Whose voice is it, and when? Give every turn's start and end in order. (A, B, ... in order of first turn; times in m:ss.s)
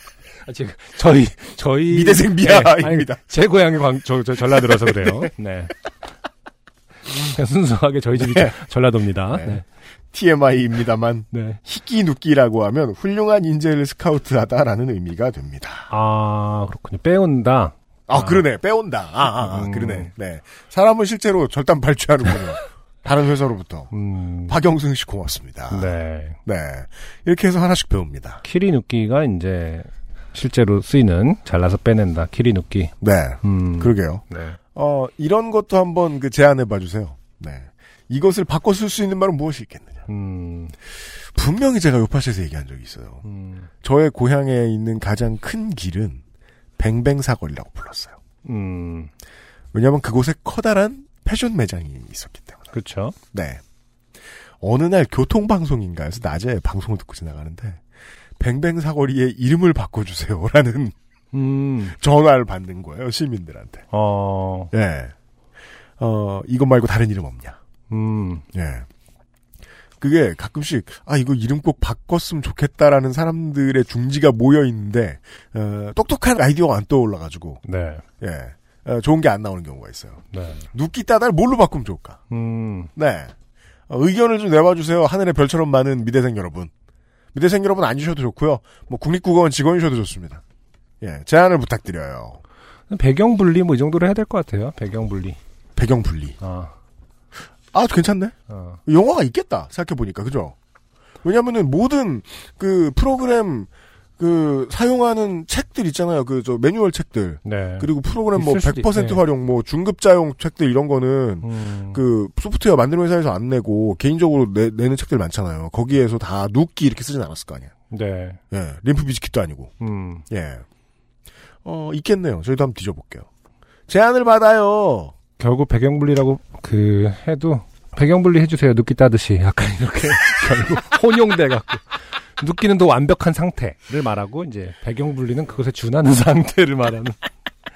0:00.4-0:05.7 A
0:01.9-0:03.2 B
0:05.0-0:05.2 B
0:07.2-0:09.6 A
0:08.2-0:08.5 B
0:10.1-0:15.9 B
0:11.3-0:11.6 A
0:15.9-0:18.4 A
0:18.1-0:23.9 B
0:19.4-0:20.1 A
0:23.9-0:24.6 A
0:24.5-0:28.4 B
0:25.7-0:26.4 A
0:28.4-0:34.6 A
0:33.0-0:34.2 B
0:34.7-0:40.0 B
0:40.1-0:40.7 A
0:41.3-0:43.2 B
0:43.2-0:43.7 A
0:43.8-0:46.2 B
0:46.8-0:48.2 B
0:48.4-0:49.1 A
0:49.7-0:52.6 B
0:52.7-0:53.2 A
0:53.3-0:53.6 B
0:54.6-0:57.8 B
0:58.4-1:00.9 B
1:01.3-1:02.0 A
1:02.0-1:03.8 B
1:03.9-1:04.7 A
1:04.7-1:05.1 B
1:06.0-1:07.6 B
1:07.9-1:08.4 A
1:08.5-1:08.8 B
1:10.0-1:17.6 B
1:17.6-1:18.0 A
1:18.2-1:20.2 B
1:20.3-1:20.7 A
1:20.7-1:22.2 B
1:22.3-1:22.9 A
1:22.9-1:23.3 B
1:23.9-1:26.7 B
1:27.3-1:30.4 B
1:31.0-1:32.4 B
1:32.9-1:35.4 A
1:35.8-1:36.3 B
1:36.4-1:36.7 A
1:37.7-1:40.5 B
1:38.5-1:38.8 A
1:41.2-1:43.7 B
1:44.2-1:57.7 B
1:47.4-1:49.2 A
1:51.4-1:52.0 A
1:57.9-1:58.4 A
1:58.5-1:59.7 B
1:59.8-2:00.2 A
2:00.3-2:00.6 B
2:01.6-2:03.3 B
2:03.9-2:05.1 B
2:05.4-2:17.2 A